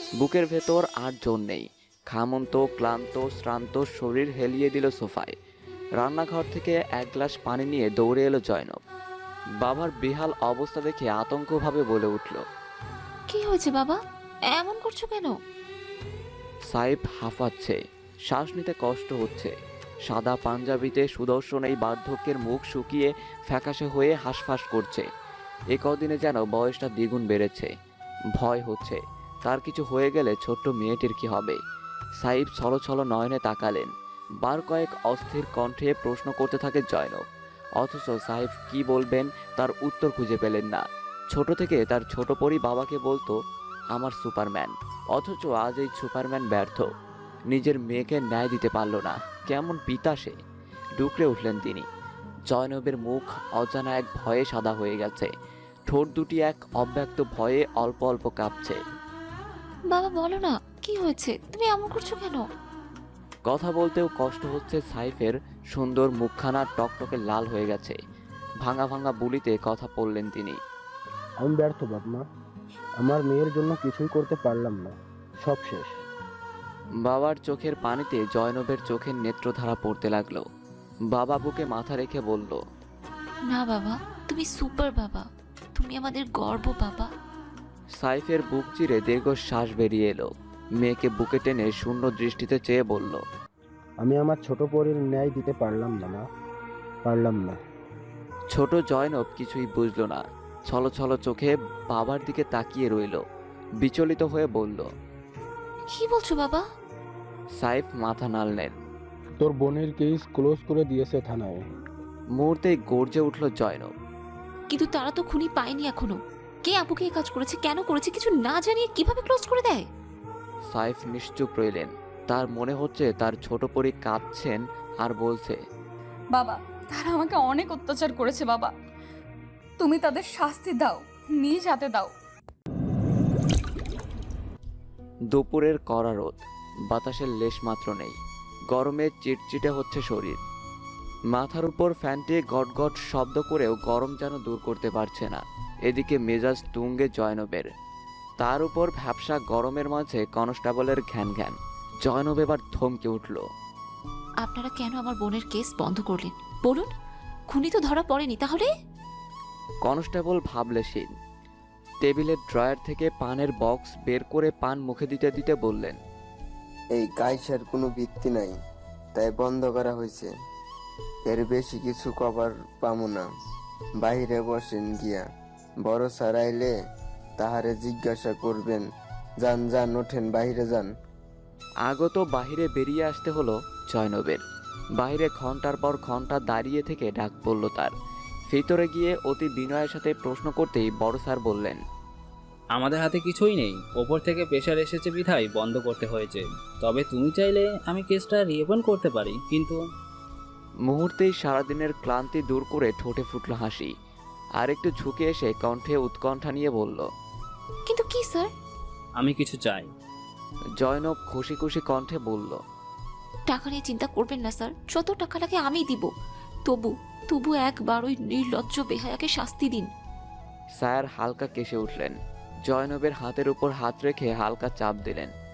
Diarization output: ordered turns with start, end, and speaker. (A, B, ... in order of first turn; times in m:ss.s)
0:00.2-0:05.3 A
0:06.0-0:08.8 A
0:09.6-0:12.4 A
0:13.3-0:14.0 B
0:14.5-0:15.3 B
0:16.7-0:17.8 A
0:18.3-0:19.5 A
0:20.0-0:25.0 A
0:25.7-0:27.7 A
0:28.3-0:31.6 A
0:32.2-0:33.9 A
0:34.4-0:37.2 A
0:37.8-0:43.3 A
0:43.9-0:46.9 A
0:47.5-0:50.4 A
0:51.0-0:51.8 A
0:52.5-0:55.3 A
0:55.9-0:58.8 A
0:59.9-1:02.4 B
1:03.4-1:08.0 A
1:08.6-1:10.6 A
1:11.4-1:12.2 C
1:13.0-1:15.9 C
1:17.0-1:20.4 A
1:21.1-1:22.6 A
1:23.5-1:27.1 B
1:27.9-1:33.2 A
1:34.0-1:36.2 C
1:37.0-1:37.6 C
1:38.5-1:43.2 A
1:43.8-1:44.9 A
1:45.9-1:46.6 B
1:47.6-1:48.7 A
1:49.4-1:51.6 C
1:52.3-1:53.9 A
1:54.7-1:59.8 B
2:00.7-2:05.6 A
2:06.3-2:08.7 D
2:09.8-2:12.1 D
2:15.3-2:16.4 A
2:16.9-2:18.2 A
2:18.7-2:20.4 A
2:21.3-2:27.7 A
2:28.4-2:33.4 A
2:34.4-2:36.9 B
2:37.5-2:38.7 B
2:39.8-2:41.1 A
2:42.0-2:46.0 A
2:46.9-2:48.5 E
2:49.1-2:50.3 E
2:51.3-2:53.2 E
2:54.0-2:55.2 E
2:55.8-2:56.7 E
2:57.4-2:58.8 E
2:59.4-3:00.9 E
3:01.8-3:04.4 A
3:05.0-3:07.9 A
3:08.5-3:11.8 A
3:12.7-3:19.8 F
3:20.8-3:23.9 A
3:24.6-3:27.0 A
3:27.8-3:28.5 B
3:29.2-3:29.9 F
3:30.8-3:32.6 A
3:33.5-3:36.1 B
3:36.6-3:39.9 B
3:40.8-3:42.1 A
3:42.6-3:45.3 A